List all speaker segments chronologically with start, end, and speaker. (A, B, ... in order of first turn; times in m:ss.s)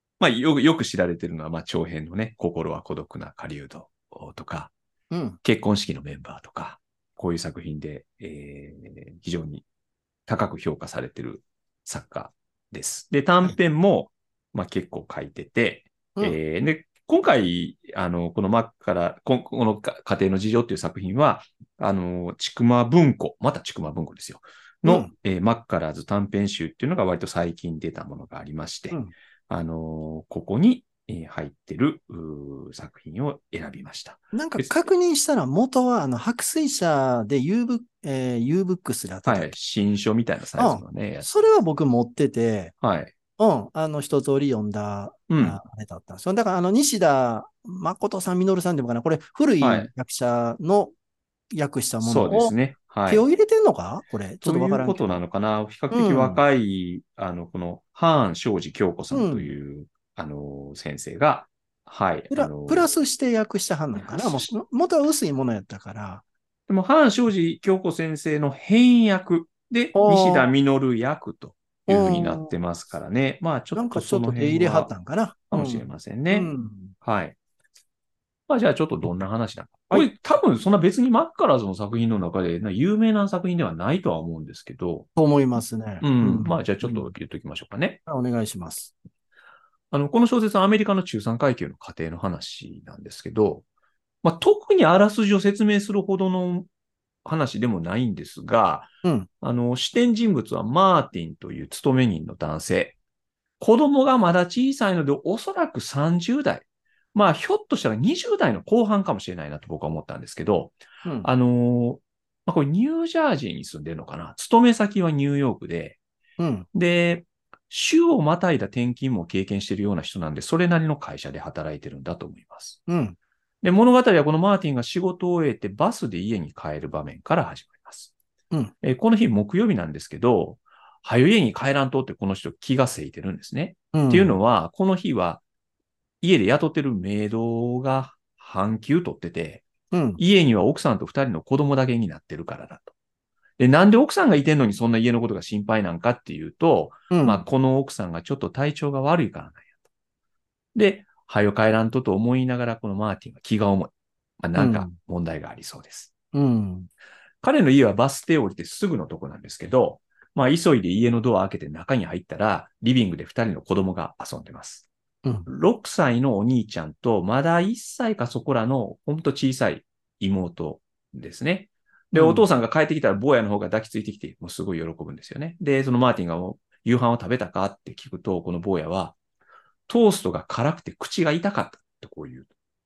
0:00.2-0:04.7 A
0:05.1-0:05.4 B
0:05.4-0:09.6 A
0:10.3-0:34.8 A
0:24.8-0:25.1 B
0:34.3-0:39.6 B
0:39.2-0:41.4 A
0:40.6-0:42.7 B
0:42.8-0:43.1 A
0:43.4-0:50.9 B
0:45.3-0:45.6 A
0:49.6-0:49.9 A
0:51.5-0:52.5 B
0:52.0-0:53.2 A
0:53.0-0:55.2 B
0:54.4-1:02.8 A
0:55.9-0:56.4 B
0:59.1-0:59.5 B
1:02.3-1:06.2 B
1:03.9-1:04.5 A
1:06.7-1:14.9 A
1:09.9-1:10.5 B
1:11.9-1:12.5 B
1:13.7-1:16.9 B
1:15.5-1:17.3 A
1:18.5-1:25.1 A
1:25.2-1:27.1 B
1:26.0-1:28.0 A
1:28.1-1:28.9 B
1:29.9-1:33.6 A
1:34.2-1:36.7 A
1:37.2-1:43.0 A
1:43.6-1:56.0 A
1:51.0-1:51.3 B
1:56.4-1:56.6 B
1:56.7-2:02.8 A
2:02.9-2:03.2 B
2:03.6-2:08.1 A
2:08.8-2:15.4 A
2:13.9-2:14.4 B
2:16.2-2:19.6 A
2:19.9-2:20.2 B
2:20.2-2:22.9 A
2:23.6-2:29.7 A
2:27.1-2:27.4 B
2:30.7-2:36.1 A
2:34.5-2:34.9 B
2:36.3-2:36.9 B
2:37.4-2:44.9 A
2:45.4-2:59.2 A
2:52.1-2:52.4 B
2:59.9-3:02.5 A